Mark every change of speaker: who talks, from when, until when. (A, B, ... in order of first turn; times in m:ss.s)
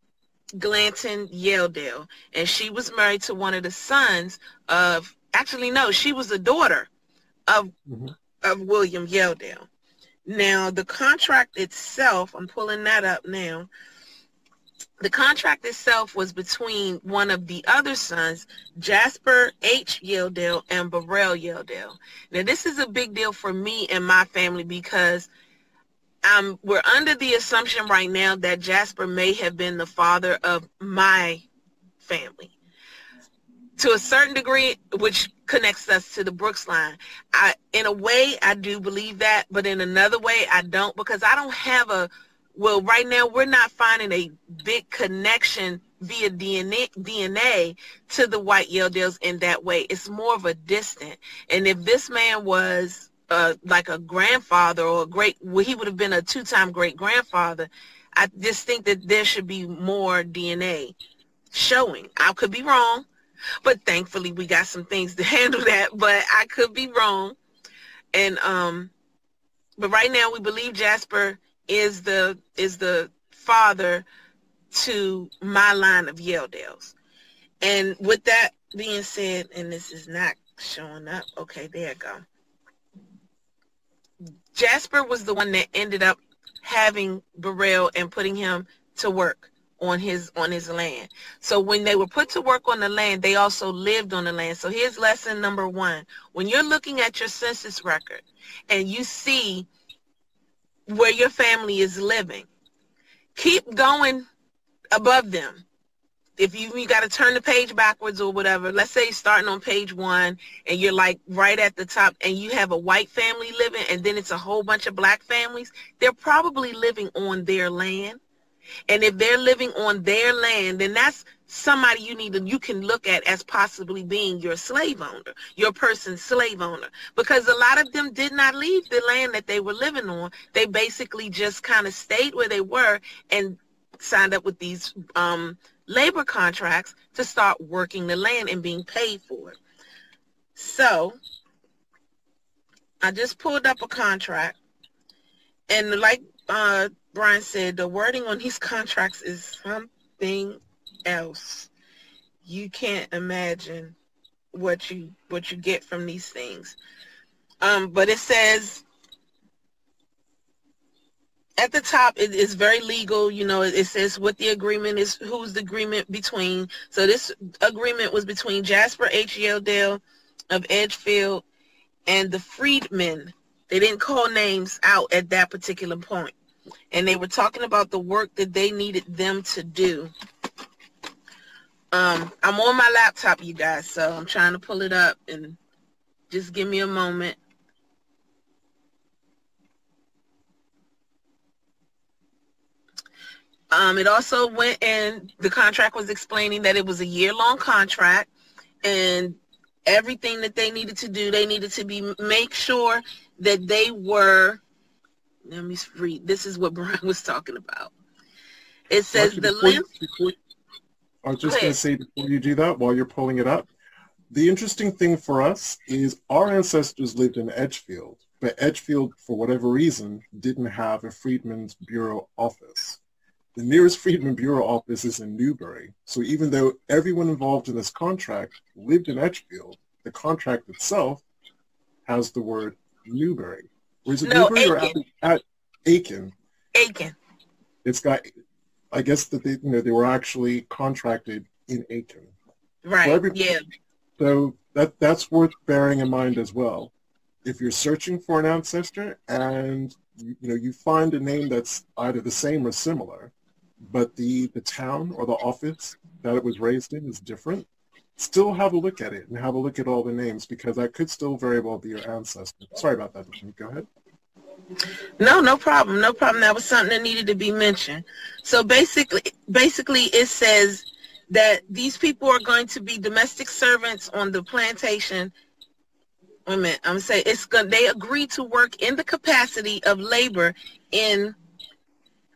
0:00.6-0:06.9 A
0:07.9-0:08.1 B
0:08.4-0:09.7 A
0:10.3-0:13.7 A
0:15.0-0:25.3 A
0:26.2-0:31.5 A
0:32.0-0:32.6 A
0:33.8-1:01.0 A
1:01.5-1:03.1 A
1:03.6-1:07.4 A
1:08.1-1:08.9 A
1:09.8-1:14.0 A
1:14.7-1:17.0 A
1:17.6-1:22.2 A
1:24.5-1:39.7 A
1:40.9-1:42.5 A
1:43.4-1:44.3 A
1:44.9-1:45.6 A
1:46.4-1:58.2 A
1:58.9-2:19.6 A
2:20.6-2:21.2 A
2:23.0-2:24.6 A
2:25.7-2:31.7 A
2:32.4-2:34.0 A
2:34.5-2:36.8 A
2:37.6-2:38.8 A
2:41.6-2:51.5 A
2:52.1-2:56.4 A
2:56.9-3:00.1 A
3:01.9-3:05.6 A
3:06.3-3:07.4 A
3:13.7-3:18.3 A
3:18.8-3:24.6 A
3:25.5-3:27.9 A
3:28.9-3:29.9 A
3:29.1-3:30.4 B
3:31.2-3:33.7 B
3:31.4-3:31.8 A
3:34.3-3:43.0 B
3:43.6-3:51.2 B
3:52.1-3:56.3 B
3:54.2-3:55.0 A
3:56.8-3:57.2 A
3:57.8-3:58.3 B
3:58.9-4:02.3 B
4:02.8-4:03.6 A
4:03.0-4:03.4 B
4:04.2-4:06.9 B
4:07.4-4:17.7 B
4:18.2-4:23.9 B
4:25.2-4:35.3 A
4:36.5-4:41.4 A